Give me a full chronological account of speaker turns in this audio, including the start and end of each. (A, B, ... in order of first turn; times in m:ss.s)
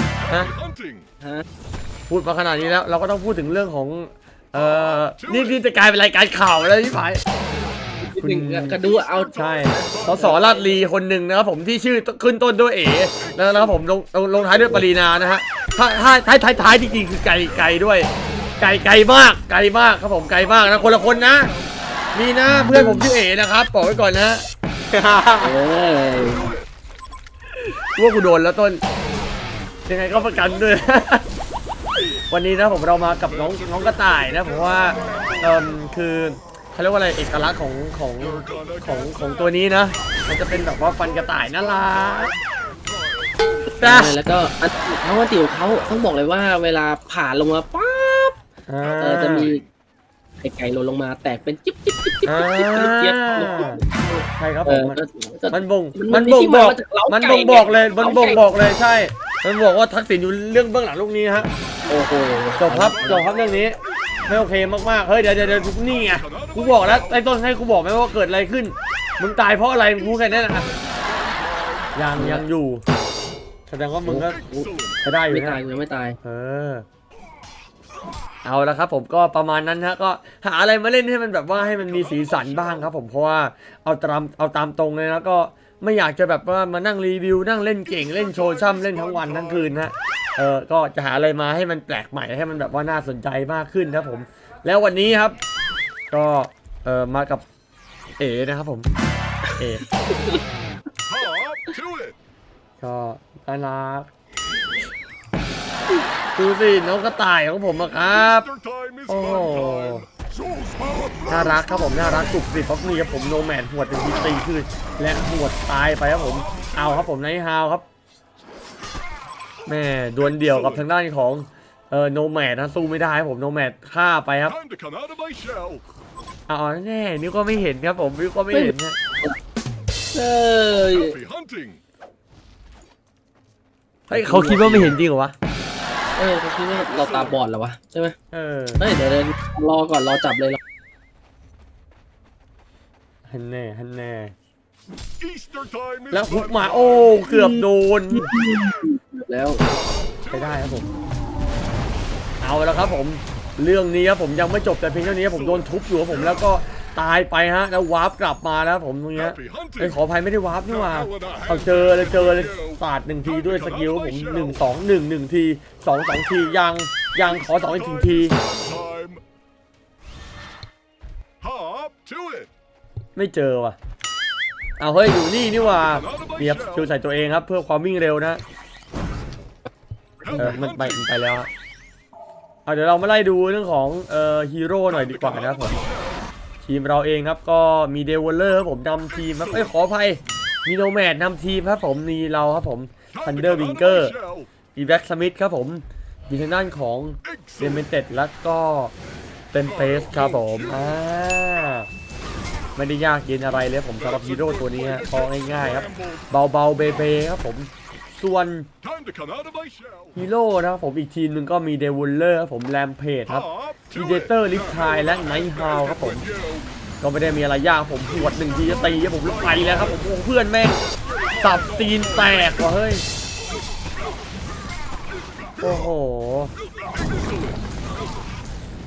0:00.2-0:01.1 A
0:02.1-0:07.2 B
0:04.6-0:05.6 A
0:08.0-0:10.7 C
0:08.2-0:08.8 B
0:08.6-0:10.8 A
0:09.3-0:18.1 B
0:13.1-0:13.8 A
0:18.6-0:21.5 B
0:20.6-0:21.9 A
0:22.1-0:25.6 B
0:25.4-0:26.5 C
0:25.9-0:26.6 A
0:27.5-0:28.8 B
0:29.9-0:31.3 B
0:30.2-0:30.6 A
0:31.9-0:42.3 B
0:33.2-0:35.8 A
0:38.2-0:43.9 A
0:43.8-0:48.4 C
0:43.8-0:44.1 B
0:48.7-0:49.5 B
0:48.8-0:49.7 A
0:49.0-0:49.6 C
0:50.4-0:58.5 C
0:52.2-0:53.8 B
0:54.4-0:55.0 B
0:55.5-1:01.5 B
0:57.4-0:58.6 A
1:01.8-1:04.2 A
1:01.9-1:03.2 C
1:02.6-1:10.7 B
1:05.6-1:07.3 A
1:09.9-1:12.0 A
1:11.9-1:12.8 B
1:12.2-1:12.4 C
1:13.7-1:14.4 B
1:14.0-1:14.7 C
1:14.1-1:15.0 A
1:15.0-1:15.6 B
1:15.3-1:16.2 C
1:16.2-1:16.8 B
1:18.4-1:35.4 B
1:21.6-1:22.9 A
1:28.0-1:29.8 A
1:36.1-1:37.4 B
1:38.2-1:38.9 B
1:39.4-1:40.4 C
1:39.6-1:39.8 B
1:41.1-1:42.1 A
1:42.8-1:44.1 B
1:46.4-1:48.5 B
1:48.0-1:52.4 A
1:49.1-1:50.0 B
1:51.3-1:57.8 B
1:56.4-1:57.0 A
1:59.7-2:04.6 B
2:00.2-2:00.8 A
2:04.5-2:05.8 A
2:06.5-2:09.0 B
2:08.5-2:09.4 C
2:10.1-2:11.1 C
2:10.9-2:11.8 A
2:14.1-2:15.3 B
2:14.1-2:15.0 C
2:16.2-2:18.2 C
2:16.9-2:17.4 A
2:18.3-2:18.8 B
2:18.8-2:20.6 C
2:23.3-2:24.3 B
2:25.2-2:27.5 A
2:26.1-2:28.3 B
2:27.3-2:29.7 C
2:29.6-2:30.9 A
2:30.3-2:30.9 B
2:32.4-2:48.3 B
2:35.2-2:36.4 A
2:39.1-2:40.0 A
2:40.6-2:44.6 A
2:47.2-2:49.2 A
2:51.4-2:52.5 A
2:53.2-2:53.8 B
2:54.8-2:58.4 B
2:55.8-2:56.9 A
3:00.2-3:01.1 A
3:00.4-3:01.5 B
3:02.6-3:05.8 B
3:04.9-3:06.2 A
3:06.6-3:14.1 B
3:13.1-3:14.5 A
3:14.7-3:18.9 B
3:17.2-3:17.8 A
3:19.5-3:21.9 B
3:19.6-3:21.0 A
3:22.8-3:28.7 B
3:24.0-3:26.3 A
3:28.8-3:30.2 A
3:30.1-3:36.2 B
3:33.3-3:36.9 A
3:37.0-3:40.8 B
3:38.1-3:40.0 A
3:40.9-3:42.8 A
3:41.4-3:43.0 B
3:45.3-3:45.9 A
3:45.6-3:46.5 B
3:46.9-3:47.9 A